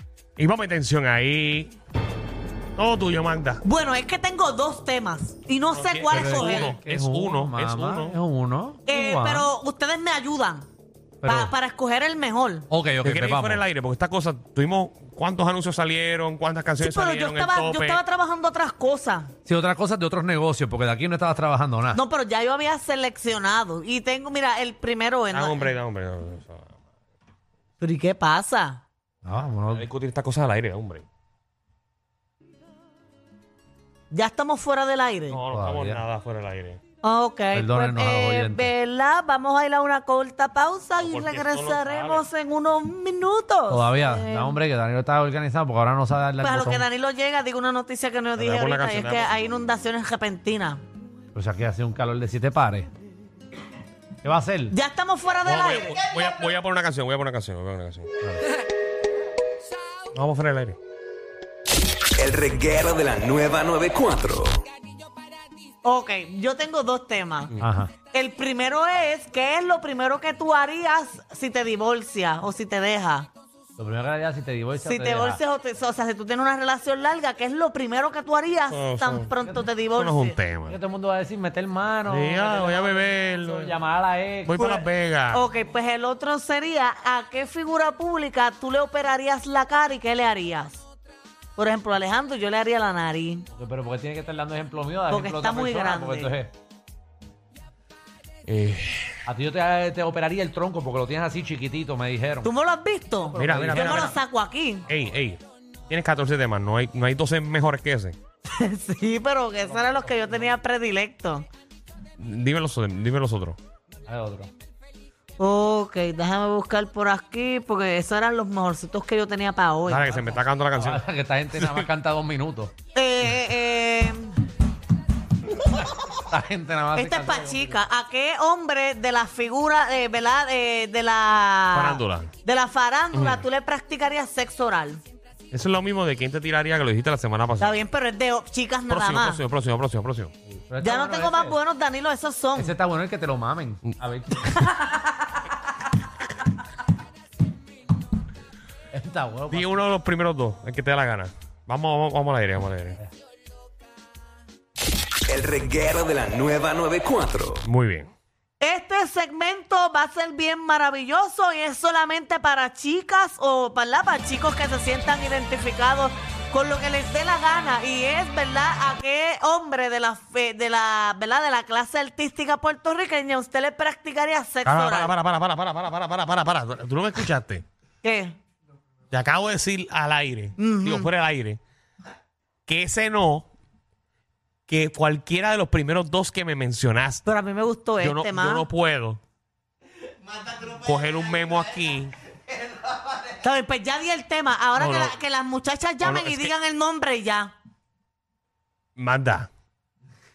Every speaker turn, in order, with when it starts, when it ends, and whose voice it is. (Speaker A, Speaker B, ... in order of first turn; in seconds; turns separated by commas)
Speaker A: 0.4-1.7, Speaker A: 2.8-3.6, Speaker B: 3.6-6.7, Speaker A: 5.7-8.2, Speaker C: 6.1-9.5, Speaker B: 8.9-10.7, Speaker C: 11.2-11.5, Speaker B: 11.2-12.7, Speaker C: 12.7-13.6, Speaker A: 13.0-18.0, Speaker B: 16.8-19.3, Speaker C: 19.4-22.0, Speaker B: 21.9-25.7, Speaker A: 25.3-26.8, Speaker B: 27.8-28.8, Speaker C: 29.2-29.9, Speaker A: 29.7-31.1, Speaker B: 34.1-35.4, Speaker A: 35.3-36.8, Speaker C: 35.5-36.0, Speaker B: 37.0-44.6, Speaker C: 37.5-38.7, Speaker A: 41.0-42.2, Speaker C: 43.7-46.9, Speaker B: 46.4-50.8, Speaker A: 48.4-49.3, Speaker C: 51.3-52.9, Speaker C: 54.2-54.7, Speaker B: 54.7-56.0, Speaker A: 55.4-58.4, Speaker A: 60.1-60.8, Speaker D: 62.1-64.6, Speaker B: 65.8-67.5, Speaker C: 67.6-67.9, Speaker B: 68.1-73.3, Speaker C: 73.8-75.4, Speaker B: 74.8-80.4, Speaker A: 78.7-79.3, Speaker A: 79.9-80.8, Speaker C: 80.7-84.6, Speaker A: 82.1-83.7, Speaker A: 84.5-85.4, Speaker B: 84.5-90.8, Speaker B: 91.5-93.5, Speaker C: 93.5-96.5, Speaker B: 95.1-96.3, Speaker A: 98.5-99.2, Speaker C: 99.3-102.5, Speaker B: 102.4-104.8, Speaker C: 103.3-104.1, Speaker A: 103.3-104.2, Speaker A: 104.9-108.2, Speaker B: 108.5-111.5, Speaker A: 112.2-113.6, Speaker C: 114.1-114.5, Speaker B: 115.4-120.1, Speaker A: 119.9-121.0, Speaker C: 120.1-122.7, Speaker A: 121.6-121.9, Speaker B: 122.9-124.3, Speaker C: 126.3-127.7, Speaker B: 126.9-135.0, Speaker A: 131.7-132.3, Speaker A: 133.1-133.4, Speaker A: 135.5-137.8, Speaker B: 137.6-139.4, Speaker A: 138.9-140.3, Speaker C: 140.7-141.6, Speaker B: 140.8-142.7, Speaker C: 142.6-144.5, Speaker C: 148.9-149.7, Speaker A: 149.5-153.0, Speaker D: 155.3-157.6, Speaker A: 157.6-158.1, Speaker B: 158.6-175.1, Speaker A: 174.6-177.6, Speaker B: 178.0-178.4, Speaker A: 179.1-181.6, Speaker B: 180.6-181.1, Speaker A: 182.7-183.5, Speaker A: 184.7-187.2, Speaker B: 187.2-188.7, Speaker A: 188.0-189.2, Speaker A: 190.7-192.1, Speaker B: 193.3-197.5, Speaker A: 194.8-195.1, Speaker A: 196.0-196.5, Speaker A: 199.0-199.5